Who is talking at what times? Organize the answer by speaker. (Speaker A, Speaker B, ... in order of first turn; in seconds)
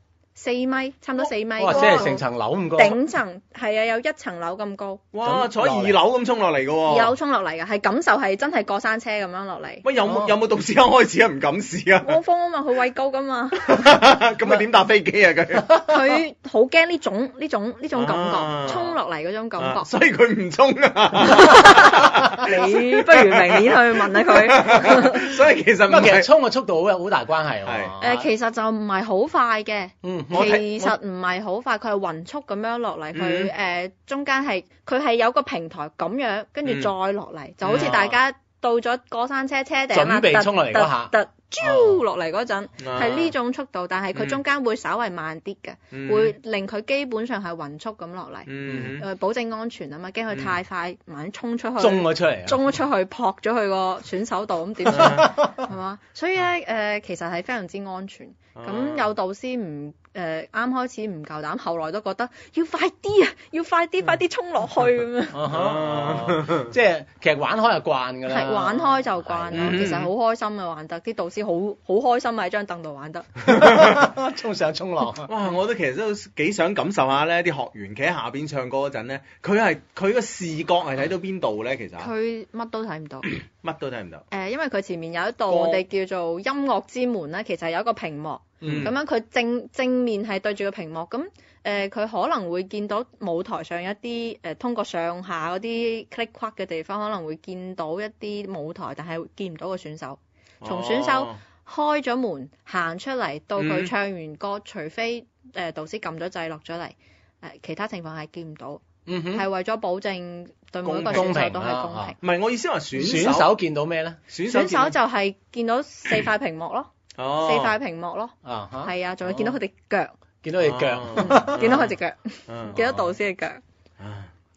Speaker A: 0.3-5.0, 6.9-9.8, 12.0-13.9, 15.8-19.9, 21.2-25.4, 28.0-65.4, 68.2-73.4, 82.0-83.3, 84.3-112.2, 114.5-120.1, 121.2-123.6
Speaker B: 1.6-3.0, 5.2-6.0, 10.0-10.3, 25.9-28.3, 30.0-30.5, 37.7-38.1, 39.9-42.0, 48.7-49.0, 51.8-52.7, 55.0-55.4, 65.3-69.8, 73.5-75.3, 88.6-88.9, 109.1-109.4, 111.1-112.1, 113.0-114.2, 118.4-118.9, 120.4-121.6
Speaker C: 5.1-7.1, 9.8-12.2, 13.6-15.7, 17.9-19.0, 19.6-26.3, 27.6-27.9, 30.3-30.9, 33.1-33.5, 37.6-38.0, 42.8-43.3, 44.1-44.4, 45.9-46.3, 48.5-49.0, 54.9-55.3, 58.5-59.0, 65.5-66.7, 69.5-70.1, 73.5-73.9, 75.2-82.1, 83.6-84.2, 85.5-85.8, 88.6-88.9, 100.6-101.4, 103.6-103.9, 110.8-111.4, 112.2-113.6, 114.3-114.9, 117.2-117.7, 120.6-121.9, 122.5-123.1, 124.0-124.3